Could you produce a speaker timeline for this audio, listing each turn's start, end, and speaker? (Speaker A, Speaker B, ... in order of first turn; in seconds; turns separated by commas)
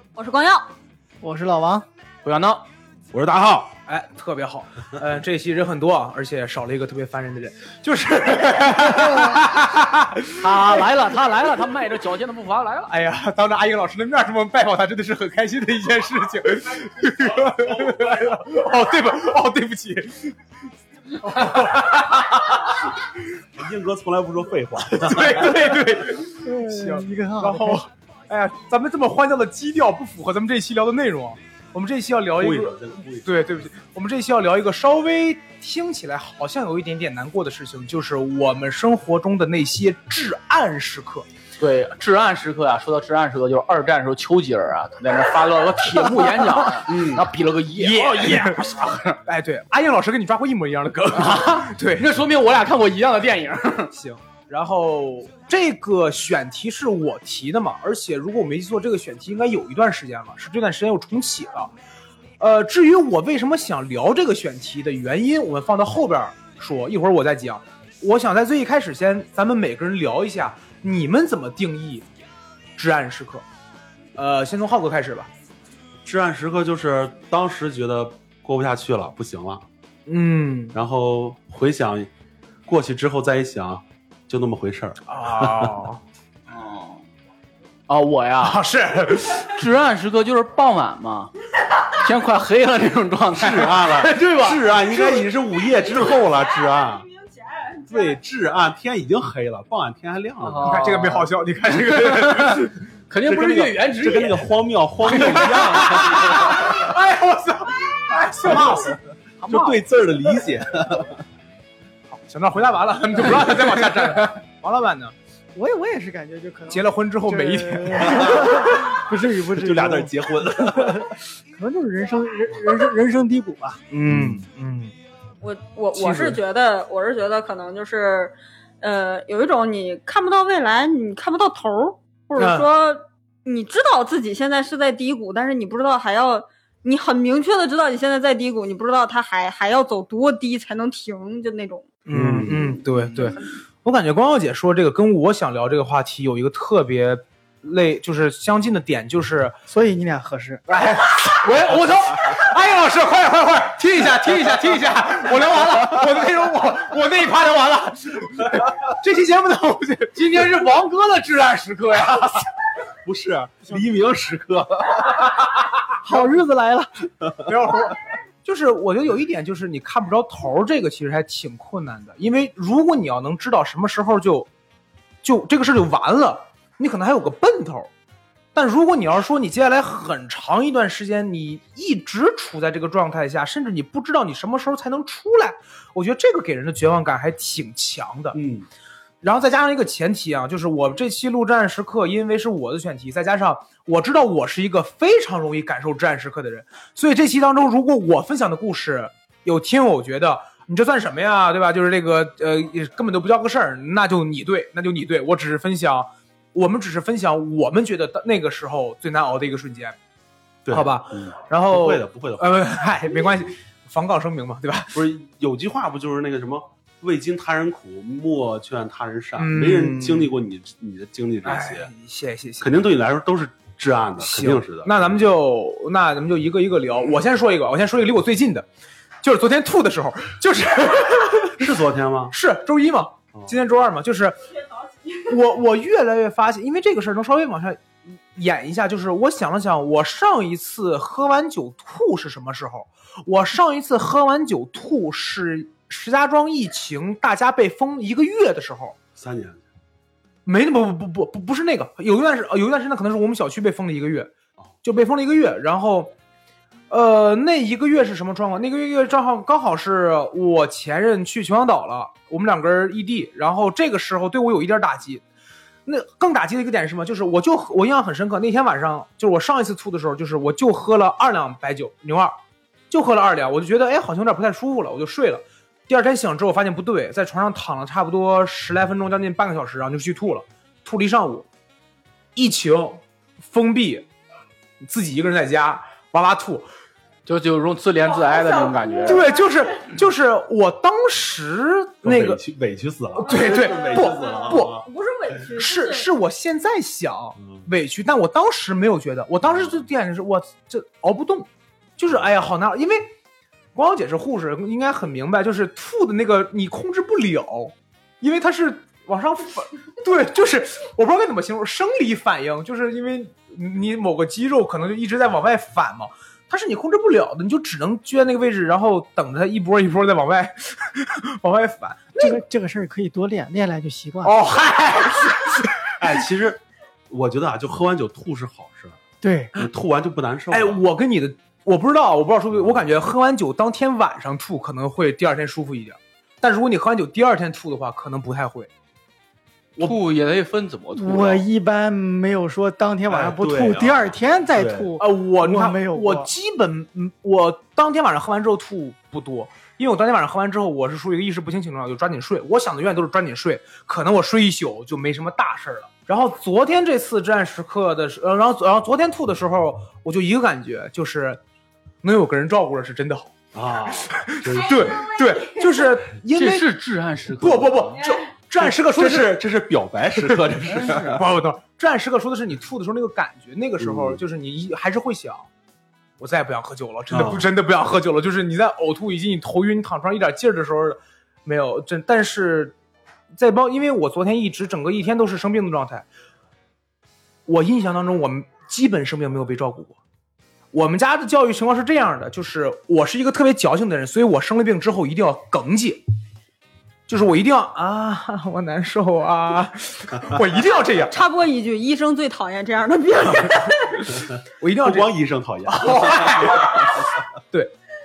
Speaker A: 0.1-0.6, Speaker B: 1.2-1.8, Speaker C: 2.2-2.6, Speaker D: 3.1-3.7, Speaker E: 3.9-10.8, Speaker C: 10.4-12.9, Speaker E: 12.9-20.4, Speaker E: 21.2-22.9, Speaker D: 23.5-25.8, Speaker E: 24.9-41.2, Speaker B: 26.4-27.8, Speaker D: 32.4-33.6, Speaker C: 41.6-49.2, Speaker E: 45.8-46.9, Speaker D: 46.9-47.3, Speaker E: 47.8-52.1, Speaker C: 51.1-53.9, Speaker E: 53.9-61.7, Speaker E: 62.4-72.0, Speaker E: 72.8-73.4, Speaker E: 74.1-75.3, Speaker D: 76.0-79.6, Speaker E: 80.1-80.8, Speaker D: 80.7-82.1, Speaker D: 82.7-85.8, Speaker E: 85.1-86.0, Speaker C: 86.5-87.0, Speaker C: 87.9-88.6, Speaker E: 88.4-89.5, Speaker C: 89.4-91.3, Speaker C: 91.9-94.9, Speaker D: 93.3-97.0, Speaker A: 95.5-98.2, Speaker D: 97.9-100.8, Speaker C: 100.4-101.3, Speaker E: 100.6-103.7, Speaker C: 101.9-104.5, Speaker D: 103.9-106.8, Speaker C: 105.0-106.2, Speaker E: 105.0-109.0, Speaker D: 108.5-108.9, Speaker B: 109.4-109.8, Speaker D: 109.5-111.2, Speaker E: 112.1-115.1, Speaker B: 115.5-123.8, Speaker E: 116.7-118.9, Speaker D: 118.1-118.4, Speaker D: 119.4-121.1, Speaker E: 123.9-124.9, Speaker D: 124.0-124.4, Speaker A: 125.4-141.9, Speaker E: 125.9-126.4, Speaker E: 132.4-132.7, Speaker E: 142.1-149.5, Speaker D: 142.1-142.8, Speaker B: 149.7-150.6, Speaker E: 150.7-162.4, Speaker C: 151.4-152.2, Speaker C: 160.2-162.2, Speaker D: 163.0-165.3, Speaker B: 166.0-166.9, Speaker D: 167.2-167.5, Speaker E: 167.4-174.5, Speaker E: 175.2-177.9, Speaker E: 178.5-188.4, Speaker D: 188.3-188.7, Speaker E: 189.2-209.9, Speaker D: 210.7-212.7, Speaker E: 210.7-215.0, Speaker D: 214.9-221.9, Speaker E: 219.4-220.3, Speaker E: 221.4-222.7, Speaker D: 222.6-225.2, Speaker E: 224.2-228.7, Speaker E: 229.2-231.6, Speaker D: 231.6-232.3, Speaker E: 232.3-234.4, Speaker D: 233.3-233.6, Speaker E: 235.2-249.0, Speaker D: 249.2-249.6, Speaker E: 250.4-254.3, Speaker E: 254.8-256.1, Speaker E: 256.9-265.2, Speaker E: 265.9-272.4, Speaker E: 272.9-281.5, Speaker E: 282.3-284.1, Speaker E: 284.8-286.7, Speaker C: 287.2-289.3, Speaker A: 288.0-289.6, Speaker E: 289.0-292.4, Speaker D: 292.0-294.9, Speaker E: 293.2-294.8, Speaker A: 293.2-296.1, Speaker E: 295.5-303.1, Speaker D: 299.5-299.8, Speaker E: 303.7-322.4, Speaker B: 322.2-324.4, Speaker E: 324.2-325.9, Speaker D: 326.0-329.0, Speaker B: 329.2-329.5, Speaker D: 329.5-330.8, Speaker E: 330.5-338.7, Speaker D: 332.5-332.8, Speaker C: 339.8-341.4, Speaker B: 341.0-346.3, Speaker D: 343.1-344.9, Speaker E: 345.0-361.4, Speaker E: 362.0-363.3, Speaker D: 363.5-365.0, Speaker E: 363.9-366.8, Speaker A: 364.4-366.0, Speaker C: 366.3-368.0, Speaker E: 367.4-369.4, Speaker A: 368.0-368.2, Speaker D: 368.6-371.2, Speaker E: 370.2-375.5, Speaker C: 370.7-371.2, Speaker D: 373.8-374.2, Speaker E: 376.2-382.8, Speaker D: 377.1-377.5, Speaker E: 383.3-386.1, Speaker E: 387.4-390.0, Speaker E: 390.7-396.0, Speaker E: 397.1-401.2, Speaker A: 401.1-404.1, Speaker E: 403.9-405.1, Speaker D: 404.8-407.1, Speaker E: 405.6-407.7